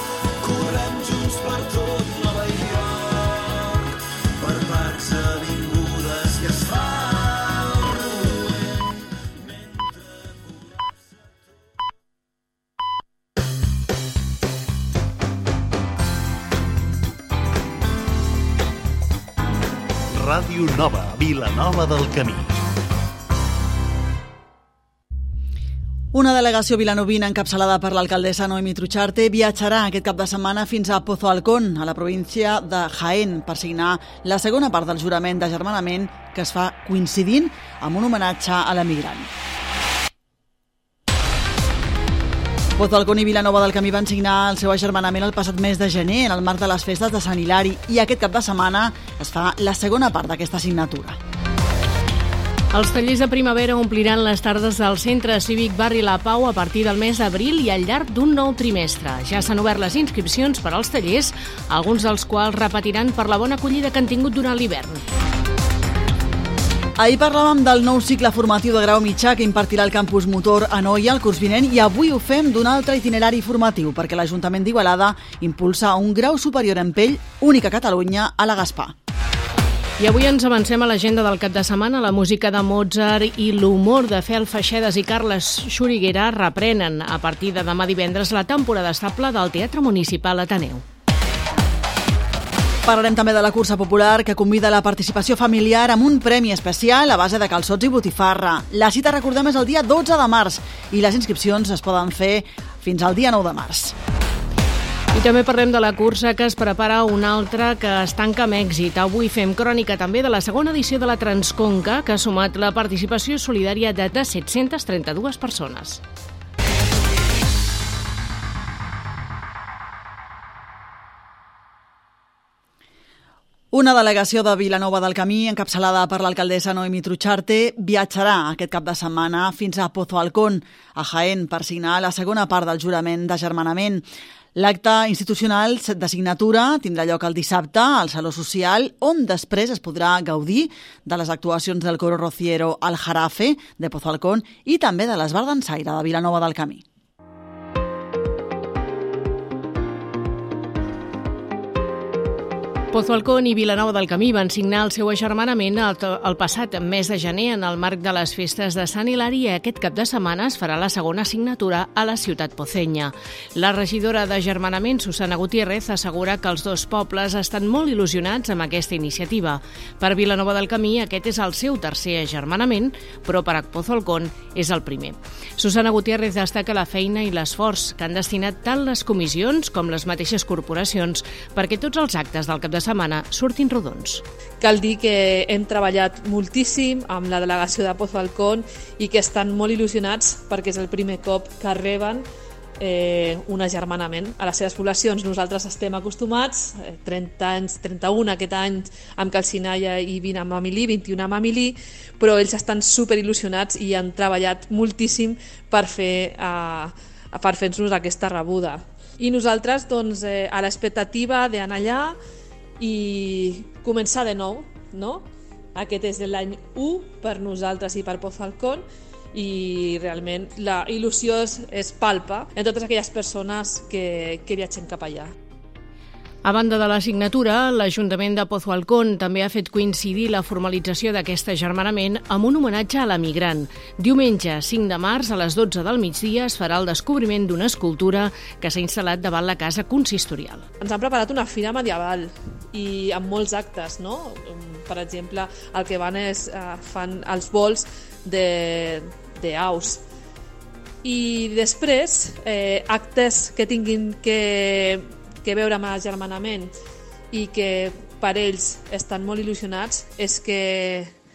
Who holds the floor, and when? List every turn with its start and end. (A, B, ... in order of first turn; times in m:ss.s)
0:00.5-0:08.6 A
0:20.1-0:22.5 A
0:26.1-0:39.3 B
0:42.8-0:51.2 B
0:52.7-1:05.0 C
1:07.0-1:18.9 B
1:20.0-1:30.8 C
1:32.8-1:43.9 B
1:45.1-1:56.0 C
2:03.7-2:26.8 B
2:32.9-3:04.2 C
3:04.6-3:12.2 D
3:12.8-3:32.1 D
3:32.8-3:35.2 D
3:35.7-3:38.8 D
3:39.3-3:45.3 D
3:46.4-4:00.6 C
4:00.8-4:10.0 D
4:11.0-4:16.7 D
4:17.3-4:21.1 D